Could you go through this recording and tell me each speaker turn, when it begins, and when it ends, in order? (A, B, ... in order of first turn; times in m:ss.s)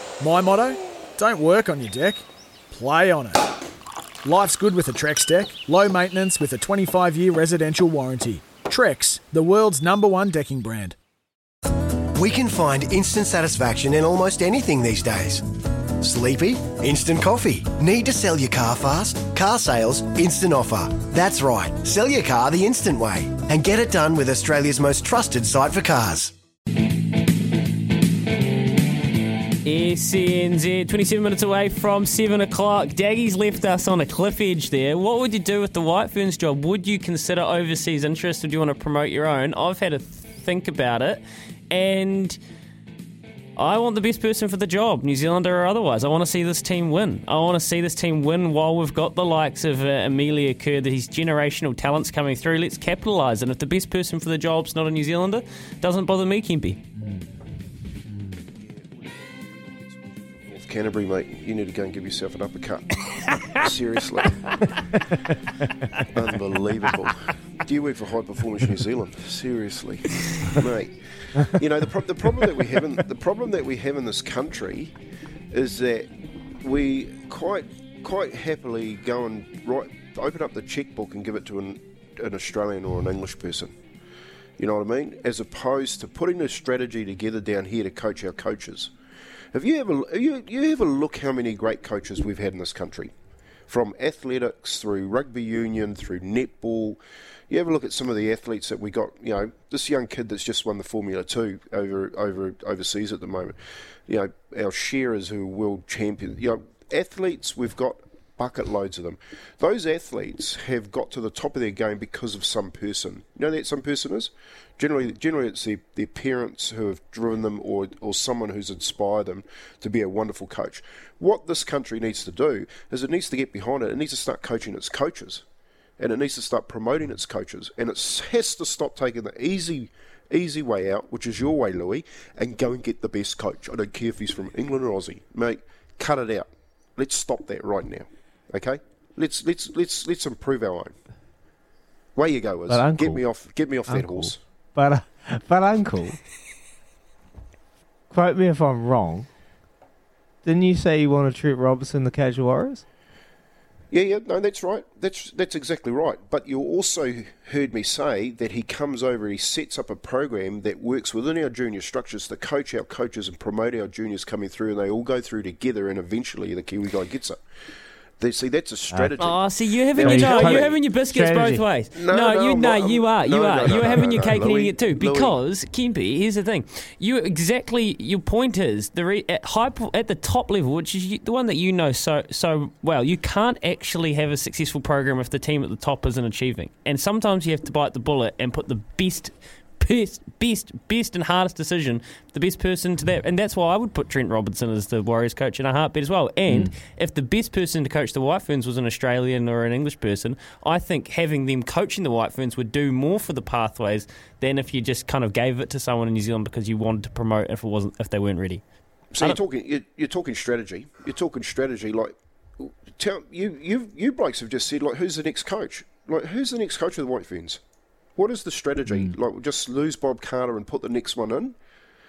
0:00.2-0:03.4 A
0:04.2-0:11.0 A
0:12.2-0:15.4 B
0:16.0-0:26.3 B
0:29.6-0:42.4 C
0:43.6-0:56.8 C
0:57.0-0:57.3 D
0:58.1-0:58.4 D
0:59.0-0:59.7 E
1:00.4-1:04.6 E
1:06.1-1:14.9 E
1:15.5-1:23.7 E
1:24.6-1:28.9 E
1:29.5-1:33.1 E
1:33.7-1:43.6 E
1:44.1-2:05.4 E
2:06.0-2:21.0 E
2:22.2-2:24.4 E
2:22.7-2:23.3 D
2:23.9-2:26.2 D
2:28.1-2:29.3 D
2:30.4-2:32.8 D
2:33.9-2:47.4 E
2:48.2-2:50.8 E
2:49.2-3:28.6 C
2:50.0-2:51.6 D
2:51.9-2:55.4 E
3:16.5-3:16.7 D
3:29.1-3:37.6 E
3:38.2-3:41.6 E